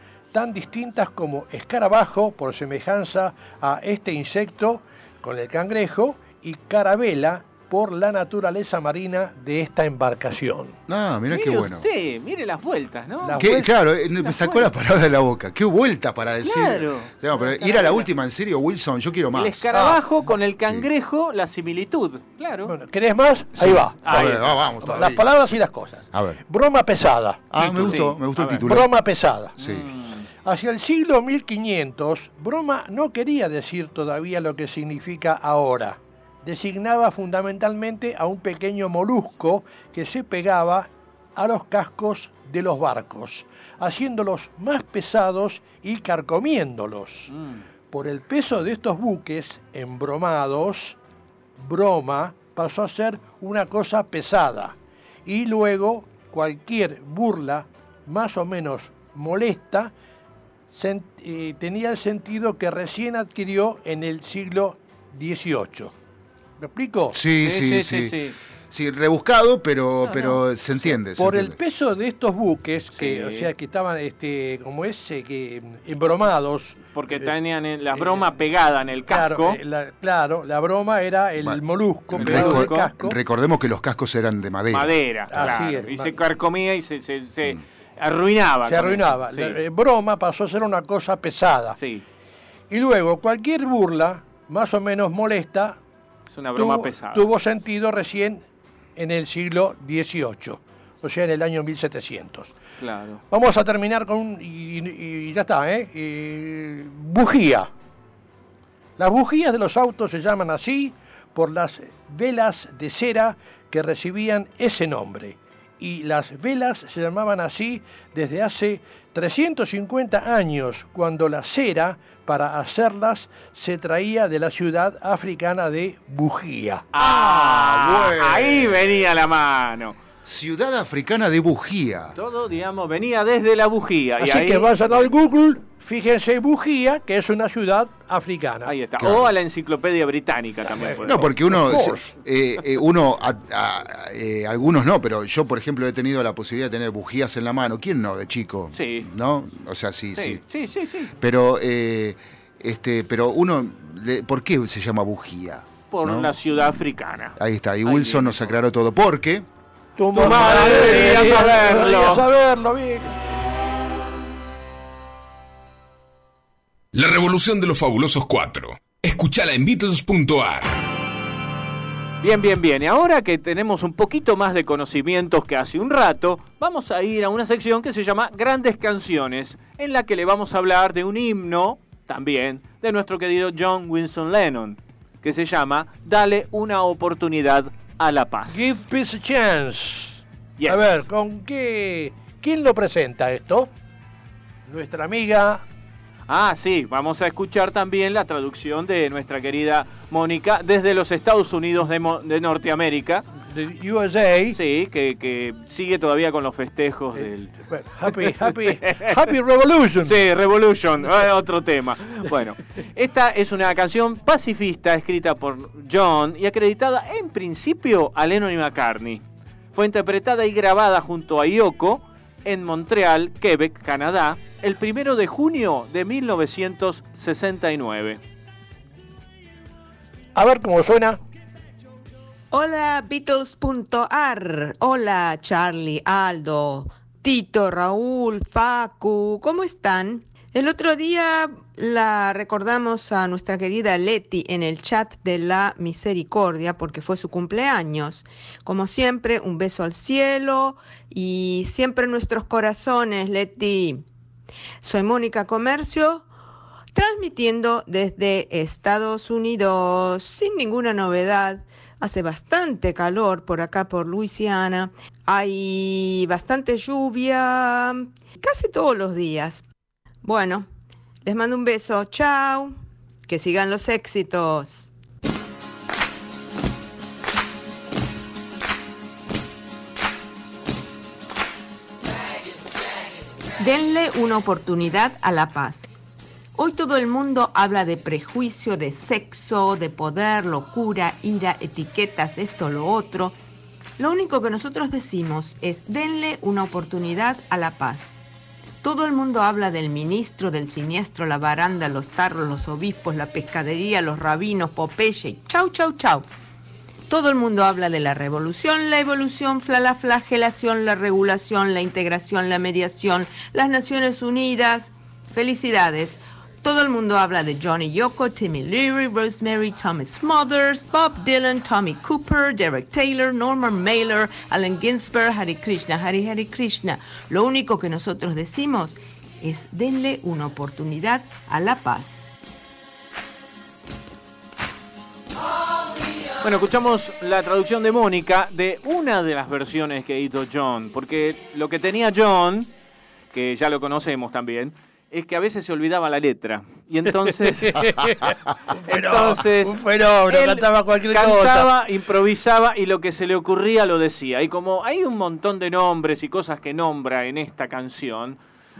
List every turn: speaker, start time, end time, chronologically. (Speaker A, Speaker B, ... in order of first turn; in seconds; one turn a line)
Speaker A: 0.3-10.8
Speaker B: 10.9-11.8
Speaker C: 11.3-13.6
Speaker A: 13.2-13.7
Speaker B: 13.4-19.7
Speaker C: 14.2-14.7
Speaker C: 16.4-18.1
Speaker C: 19.3-22.7
Speaker A: 19.7-20.0
Speaker B: 20.6-20.9
Speaker A: 22.7-28.0
Speaker B: 23.6-25.5
Speaker C: 24.0-24.5
Speaker B: 26.1-26.4
Speaker B: 27.5-28.9
Speaker C: 27.8-28.7
Speaker A: 28.7-29.6
Speaker B: 29.6-29.9
Speaker C: 29.6-30.3
Speaker A: 30.4-47.3
Speaker C: 47.3-47.6
Speaker A: 47.9-51.0
Speaker A: 51.6-59.9
Speaker A: 60.7-66.0
Speaker A: 66.6-67.2
Speaker B: 67.1-68.2
Speaker C: 67.4-68.4
Speaker B: 68.7-71.6
Speaker C: 70.1-70.4
Speaker A: 71.0-77.3
Speaker C: 73.0-73.5
Speaker C: 77.0-79.6
Speaker A: 77.9-78.3
Speaker A: 79.1-83.2
Speaker B: 81.4-85.6
Speaker C: 82.2-82.9
Speaker C: 84.7-89.6
Speaker A: 85.3-86.1
Speaker A: 88.7-91.8
Speaker A: 92.7-95.8
Speaker C: 96.3-97.3
Speaker A: 96.6-98.5
Speaker A: 99.0-102.5
Speaker C: 102.8-103.2
Speaker A: 103.3-107.7
Speaker A: 109.0-126.8
Speaker C: 126.9-130.0
Speaker B: 127.0-129.1
Speaker B: 130.2-132.2
Speaker C: 132.2-134.7
Speaker A: 134.2-138.7
Speaker C: 138.7-141.3
Speaker B: 139.0-139.3
Speaker A: 140.8-142.1
Speaker B: 141.0-150.4
Speaker C: 148.8-149.1
Speaker C: 150.2-151.1
Speaker B: 151.2-156.3
Speaker C: 155.9-158.6
Speaker B: 157.4-159.5
Speaker A: 160.0-163.1
Speaker C: 160.2-162.3
Speaker D: 166.9-170.8
Speaker C: 172.2-188.8
Speaker A: 188.5-193.7
Speaker C: 190.6-191.1
Speaker A: 194.7-195.7
Speaker C: 196.3-203.2
Speaker A: 203.5-204.6
Speaker C: 204.6-207.6
Speaker A: 207.2-210.1
Speaker C: 208.1-209.2
Speaker C: 210.0-219.2
Speaker C: 219.8-228.2
Speaker A: 230.4-231.2
Speaker E: 232.5-254.0
Speaker E: 254.8-256.3
Speaker E: 256.9-269.6
Speaker E: 270.2-270.7
Speaker E: 271.2-274.9
Speaker E: 283.6-285.9
Speaker E: 286.6-293.4
Speaker E: 294.0-298.1
Speaker E: 298.8-306.3
Speaker E: 307.1-332.3
Speaker C: 336.4-342.7
Speaker C: 343.3-348.1
Speaker A: 347.6-351.7
Speaker C: 348.7-358.4